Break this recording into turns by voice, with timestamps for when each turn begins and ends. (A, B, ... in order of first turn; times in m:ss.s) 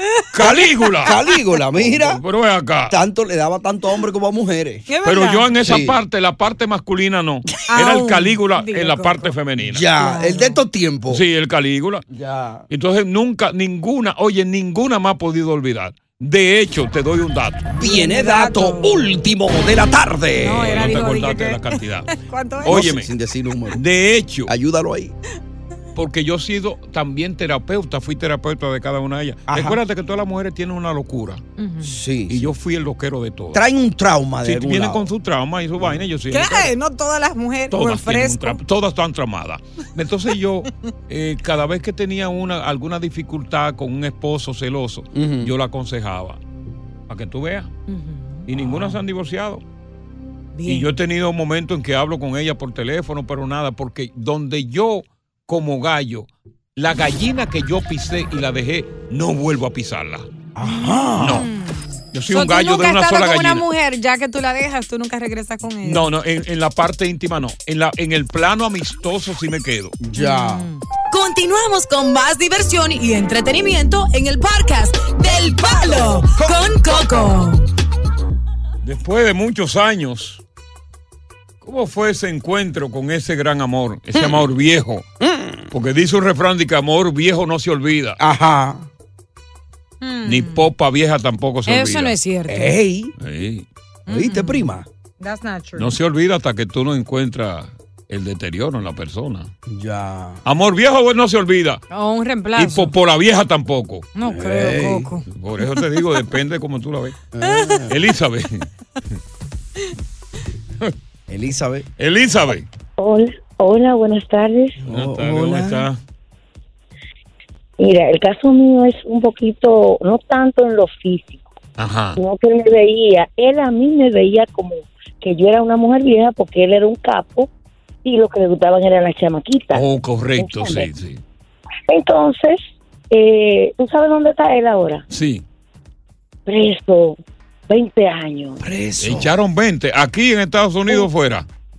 0:00.2-0:00.6 A
0:00.3-0:01.2 B
0:00.4-0:02.2 C
0:01.8-0:03.0 B
0:02.9-0:04.9 C
0:04.9-0:05.5 A
0:05.0-0:09.9 B
0:05.6-0:06.0 C
0:07.7-0:09.4 A
0:09.6-0:11.2 C
0:09.9-0:10.6 A
0:11.1-0:12.0 B
0:12.1-0:12.7 C
0:12.7-0:17.7 B
0:17.7-0:20.9 C
0:17.8-0:19.1 A
0:20.4-0:22.9 A
0:20.6-0:23.1 B
0:22.7-0:23.8 C
0:23.7-0:24.5 B
0:24.5-0:25.1 C
0:26.0-0:31.4 B
0:29.5-0:29.8 C
0:31.6-0:32.0 A
0:31.8-0:32.5 C
0:32.3-0:33.6 B
0:33.5-0:35.1 C
0:34.4-0:36.7 B
0:36.3-0:38.6 A
0:37.7-0:46.4 B
0:45.1-0:45.5 C
0:47.1-0:47.8 B
0:47.9-0:49.0 A
0:48.5-0:49.6 B
0:50.6-0:50.9 A
0:50.7-1:00.3 B
1:00.6-1:01.5 C
1:00.6-1:06.1 A
1:01.2-1:01.5 B
1:02.1-1:03.7 B
1:05.8-1:10.0 B
1:10.0-1:10.7 C
1:10.2-1:10.8 A
1:11.1-1:17.6 D
1:15.9-1:17.2 C
1:18.8-1:20.4 B
1:21.6-1:25.1 B
1:24.2-1:24.4 C
1:25.2-1:25.7 C
1:25.7-1:28.2 B
1:28.2-1:28.9 C
1:30.0-1:30.7 A
1:30.2-1:32.2 B
1:31.7-1:32.8 A
1:32.5-1:33.1 C
1:33.2-1:33.7 B
1:34.1-1:34.9 C
1:34.1-1:36.0 A
1:35.8-1:39.5 B
1:39.7-1:40.4 C
1:40.4-1:41.8 B
1:41.9-1:42.9 A
1:42.6-1:44.1 B
1:44.2-1:45.8 A
1:44.2-1:45.1 C
1:45.3-1:47.2 B
1:47.3-1:48.0 C
1:47.4-1:47.8 A
1:47.9-1:48.7 B
1:51.3-1:51.9 C
1:52.0-1:52.7 B
1:53.0-1:54.8 E
1:54.8-1:55.9 C
1:54.9-1:56.0 B
1:57.8-2:01.5 E
2:01.8-2:02.2 B
2:02.2-2:07.5 E
2:08.0-2:09.8 E
2:09.7-2:11.2 B
2:10.4-2:10.9 E
2:11.9-2:12.6 E
2:13.1-2:15.0 E
2:15.1-2:15.5 B
2:16.5-2:17.2 E
2:17.7-2:18.6 E
2:18.6-2:19.3 C
2:19.0-2:21.5 B